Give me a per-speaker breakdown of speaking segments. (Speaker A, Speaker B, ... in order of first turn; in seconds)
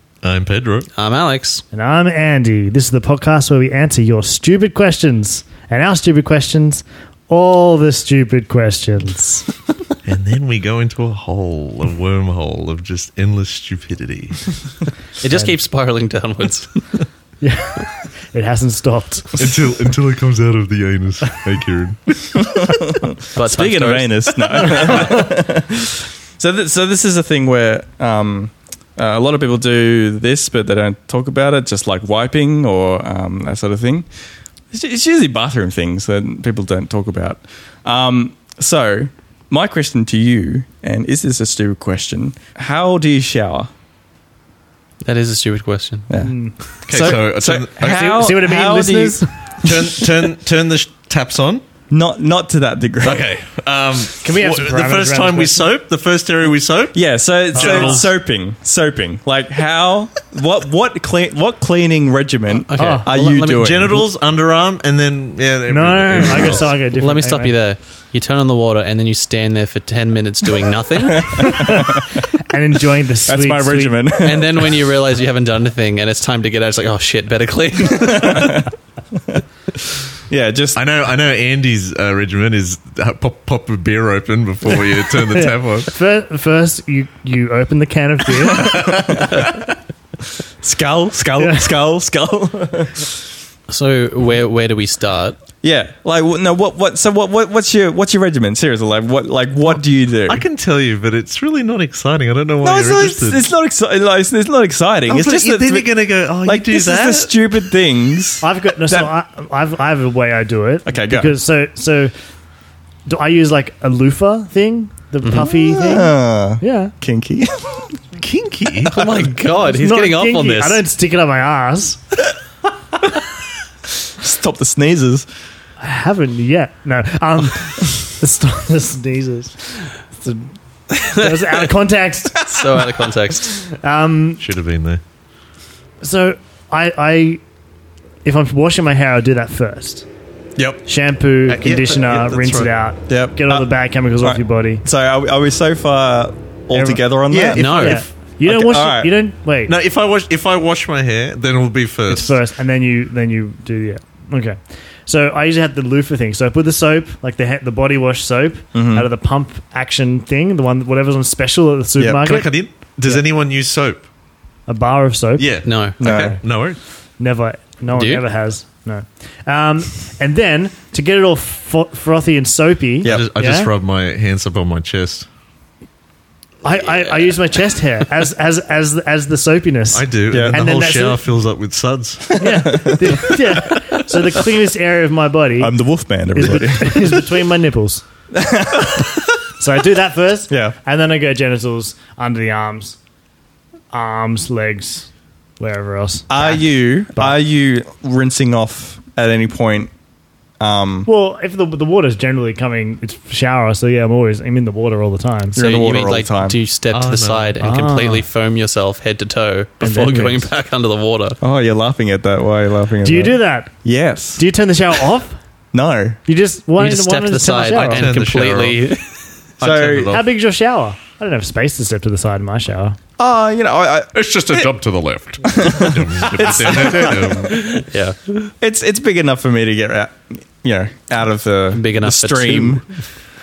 Speaker A: 0.2-0.9, 10.1-14.6, 19.4-22.6, 46.9-48.3, 49.6-51.6, 53.0-58.1, 63.5-66.7, 80.8-85.9, 100.3-103.4, 105.1-107.4, 118.2-119.0, 134.4-135.0, 141.5-142.7, 147.3-148.1, 149.7-152.4, 162.2-164.0, 165.4-166.8, 173.1-175.3, 179.9-182.3, 206.9-207.6, 217.7-218.8, 219.6-220.3, 224.1-227.6
Speaker B: 0.9-1.6, 15.2-17.1, 23.4-25.2, 45.0-46.1, 62.6-63.8, 67.0-71.6, 74.2-78.7, 93.7-95.4, 118.9-120.8, 132.4-133.6, 147.6-148.1, 165.6-166.0, 167.9-168.2, 205.6-211.4, 216.8-219.2, 227.0-228.5, 231.7-232.9
Speaker C: 1.7-9.5, 17.4-19.5, 46.2-46.6, 47.8-49.5, 54.2-55.6, 57.5-58.1, 62.8-63.1, 65.7-67.5, 71.3-74.0, 85.3-89.0, 91.4-91.7, 108.4-112.1, 113.1-116.9, 119.6-122.0, 125.8-132.4, 133.7-134.4, 136.0-137.4, 138.2-140.1, 140.9-144.8, 146.7-149.7, 152.1-162.5, 164.7-166.4, 167.2-173.7, 176.6-181.3, 182.4-185.8, 186.3-188.0, 189.6-193.0, 193.9-197.3, 201.1-205.6, 207.6-208.3, 209.8-210.5, 213.0-213.8, 214.4-215.4, 216.3-218.1, 220.1-223.0
Speaker D: 22.5-34.1, 34.7-43.7, 46.1-49.9, 51.9-53.3, 56.9-64.0, 71.3-72.0, 73.3-74.9, 78.0-78.7, 80.3-80.8, 88.6-89.6, 90.6-93.1, 95.6-100.4, 102.6-109.1, 110.8-111.3, 115.4-117.9, 124.2-125.3, 140.6-140.8, 143.1-149.1, 158.7-159.1, 162.0-162.3, 166.0-166.4, 180.3-180.6, 182.3-183.3, 185.6-187.2, 188.3-189.2, 190.5-190.8, 196.3-199.9, 200.6-201.1, 205.6-206.6, 211.4-214.4, 215.7-216.2, 219.6-220.2, 223.2-224.7, 225.4-227.8, 228.6-233.1